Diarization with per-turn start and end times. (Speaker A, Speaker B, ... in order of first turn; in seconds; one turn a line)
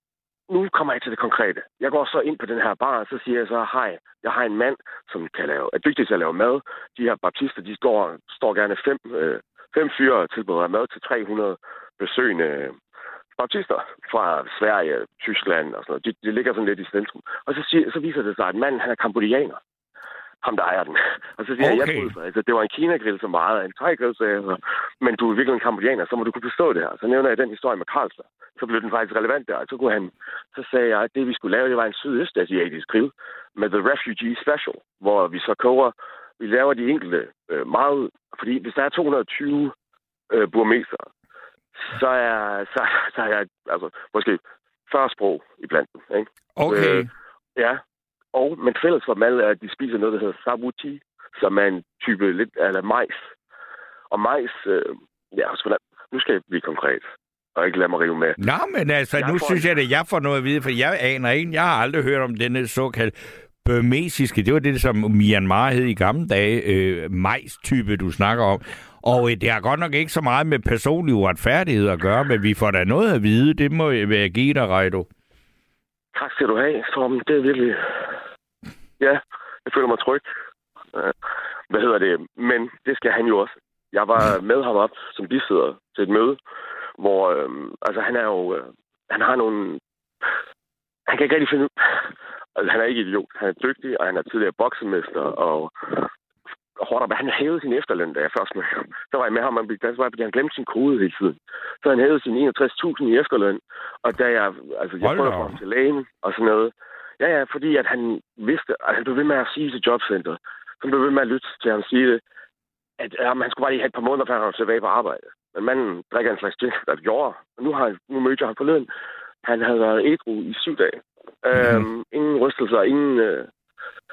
Speaker A: 0.5-12.8
Speaker A: 13.4-19.6
Speaker A: 20.4-39.7
Speaker B: 21.6-22.1
Speaker A: 40.3-41.1
Speaker A: 41.8-47.8
Speaker B: 46.6-47.1
Speaker A: 48.3-53.3
Speaker A: 54.1-58.4
Speaker B: 58.4-75.1
Speaker A: 59.2-59.7
Speaker A: 76.1-78.1
Speaker A: 79.0-80.2
Speaker A: 81.7-86.4
Speaker A: 87.0-89.8
Speaker A: 91.1-96.1
Speaker A: 96.8-112.2
Speaker B: 105.0-105.6
Speaker A: 113.0-118.9
Speaker A: 119.4-123.5
Speaker B: 121.5-121.8